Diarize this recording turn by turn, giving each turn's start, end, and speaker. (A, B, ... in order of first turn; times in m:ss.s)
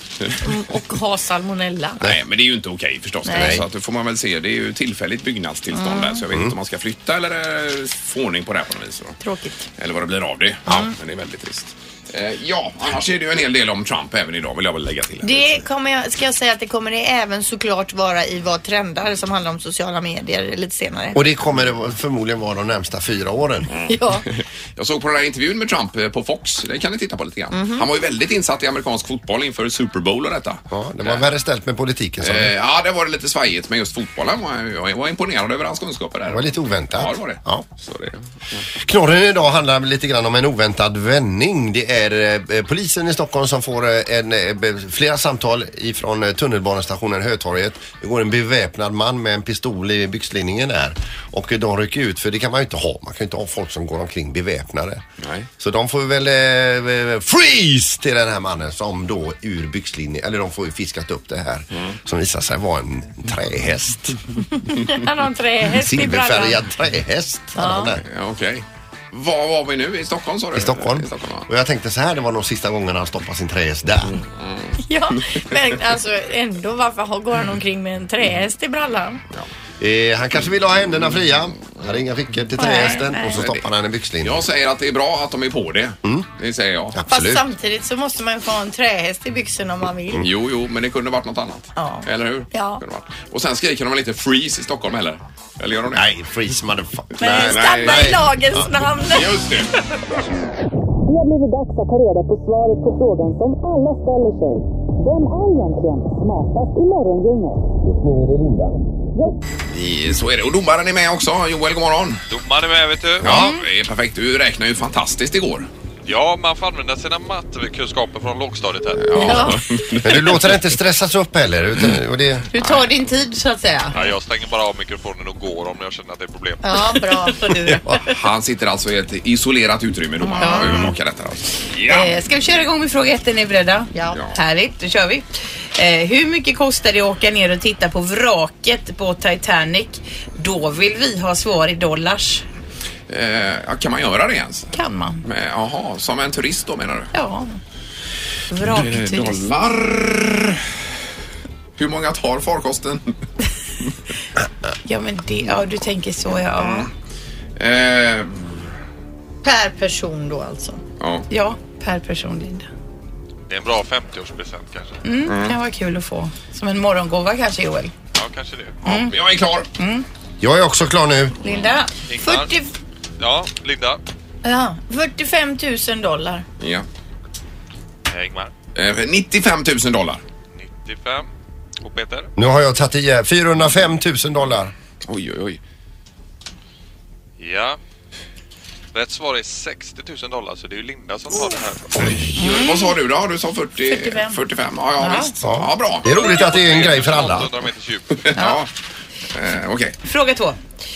0:00.4-0:02.0 A
0:02.0-0:09.2 B
0:03.2-0:03.6 A
0:03.3-0:03.6 C
0:05.7-0:06.2 A
0:09.2-0:09.7 A
0:09.8-0:15.6 B
0:15.2-0:21.2 A
0:21.1-0:23.7 C
0:23.7-0:31.2 B
0:23.9-0:24.2 A
0:27.5-0:27.8 A
0:30.7-0:32.5 C
0:32.2-0:38.6 B
0:36.3-0:37.7 C
0:38.8-0:55.0 C
0:55.2-0:55.5 B
0:55.6-1:04.2 C
1:04.6-1:06.6 A
1:05.7-1:08.0 C
1:07.6-1:08.0 A
1:08.0-1:11.5 B
1:10.5-1:14.2 C
1:14.1-1:15.4 B
1:14.8-1:19.2 A
1:19.8-1:24.4 C
1:22.6-1:23.4 A
1:22.7-1:23.6 B
1:24.2-1:27.0 B
1:26.9-1:27.4 C
1:27.1-1:30.2 A
1:30.2-1:36.1 B
1:31.8-1:32.8 A
1:35.9-1:38.7 C
1:37.2-1:39.4 A
1:37.2-1:38.2 B
1:39.1-1:39.7 B
1:41.0-1:47.7 D
1:47.8-1:48.8 C
1:49.7-1:52.2 B
1:52.3-1:53.3 E
1:53.2-1:53.5 C
1:53.2-1:55.7 B
1:56.0-1:59.5 E
1:59.0-2:00.6 B
1:59.1-1:59.7 A
2:00.0-2:02.5 C
2:02.5-2:04.0 F
2:03.9-2:07.0 E
2:06.6-2:08.1 A
2:08.0-2:12.1 B
2:10.3-2:10.8 A
2:10.4-2:10.7 F
2:11.8-2:15.2 F
2:13.9-2:14.2 A
2:15.8-2:22.4 F
2:23.1-2:27.1 B
2:24.7-2:25.2 F
2:27.1-2:27.5 F
2:28.5-2:29.4 F
2:28.6-2:30.6 B
2:31.8-2:33.1 B
2:34.8-2:36.9 F
2:36.6-2:36.9 B
2:37.6-2:38.5 B
2:39.4-2:40.8 A
2:41.0-2:41.2 B
2:41.3-2:42.7 F
2:43.5-2:45.0 E
2:45.0-2:47.9 F
2:45.2-2:45.6 B
2:48.1-2:48.8 E
2:48.8-2:49.7 B
2:48.8-2:49.1 F
2:49.8-2:50.0 F
2:50.4-2:51.4 C
2:51.4-2:51.9 F
2:52.1-2:52.5 E
2:52.2-2:52.7 A
2:53.2-2:54.0 E
2:54.4-2:56.4 A
2:56.6-2:56.8 B
2:58.1-2:58.5 E
2:58.7-3:00.2 B
3:00.5-3:01.3 E
3:01.8-3:02.3 E
3:02.4-3:04.7 C
3:05.0-3:05.6 B
3:07.4-3:07.8 E
3:08.9-3:12.0 E
3:11.9-3:12.4 C
3:12.0-3:16.2 B
3:12.4-3:13.0 A
3:13.9-3:14.4 A
3:15.0-3:15.3 F
3:15.4-3:17.5 C
3:16.1-3:18.3 E
3:18.2-3:18.7 B
3:19.3-3:20.0 B
3:20.0-3:20.6 F